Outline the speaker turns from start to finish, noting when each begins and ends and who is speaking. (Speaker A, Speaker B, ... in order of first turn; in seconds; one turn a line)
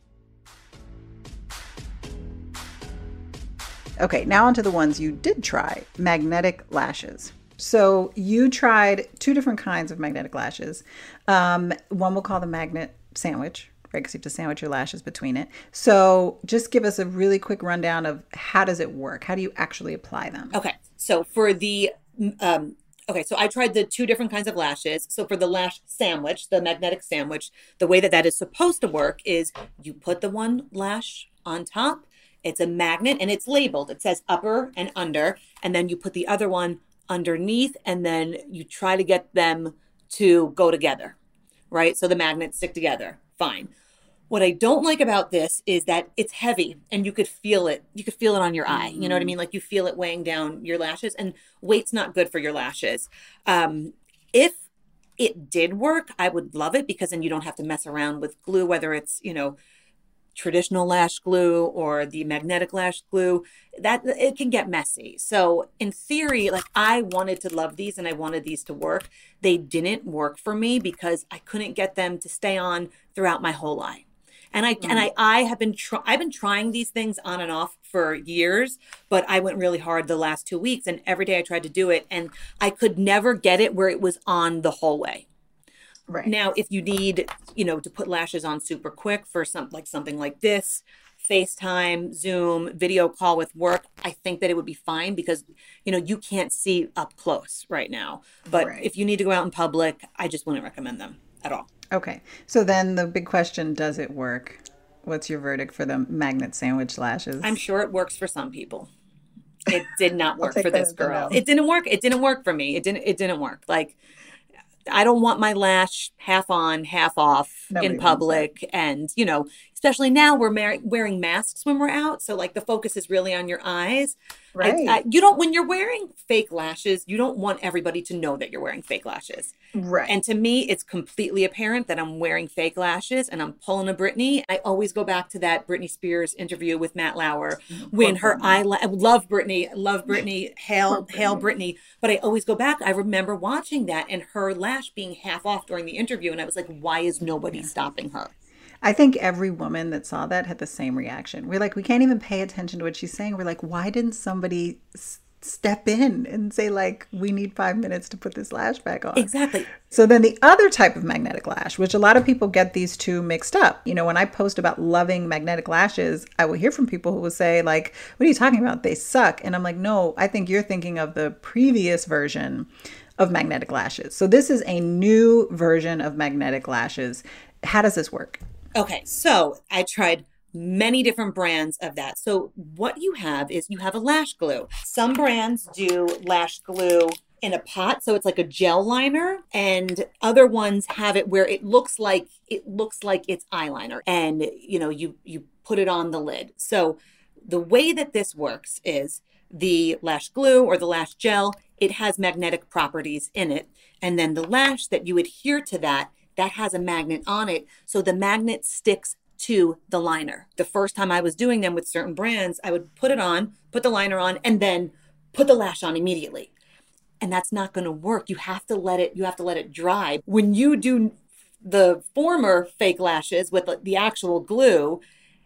Speaker A: 4.0-20.6
Speaker B: 20.5-41.2
Speaker B: 41.7-43.7
Speaker B: 44.3-54.6
Speaker A: 48.7-49.4
Speaker B: 55.2-59.6
Speaker B: 60.3-85.3
Speaker A: 74.8-75.1
Speaker B: 86.2-101.7
Speaker A: 98.5-98.8
Speaker A: 101.9-107.6
Speaker B: 107.4-108.9
Speaker B: 109.7-114.0
Speaker A: 110.4-111.4
Speaker B: 114.9-129.5
Speaker A: 117.7-118.5
Speaker A: 124.6-125.0
Speaker A: 129.8-130.1
Speaker B: 130.1-148.3
Speaker A: 137.8-138.6
Speaker A: 140.9-141.5
Speaker A: 148.8-159.3
Speaker B: 159.2-159.7
Speaker A: 159.8-178.4
Speaker B: 178.8-216.5
Speaker B: 217.2-225.0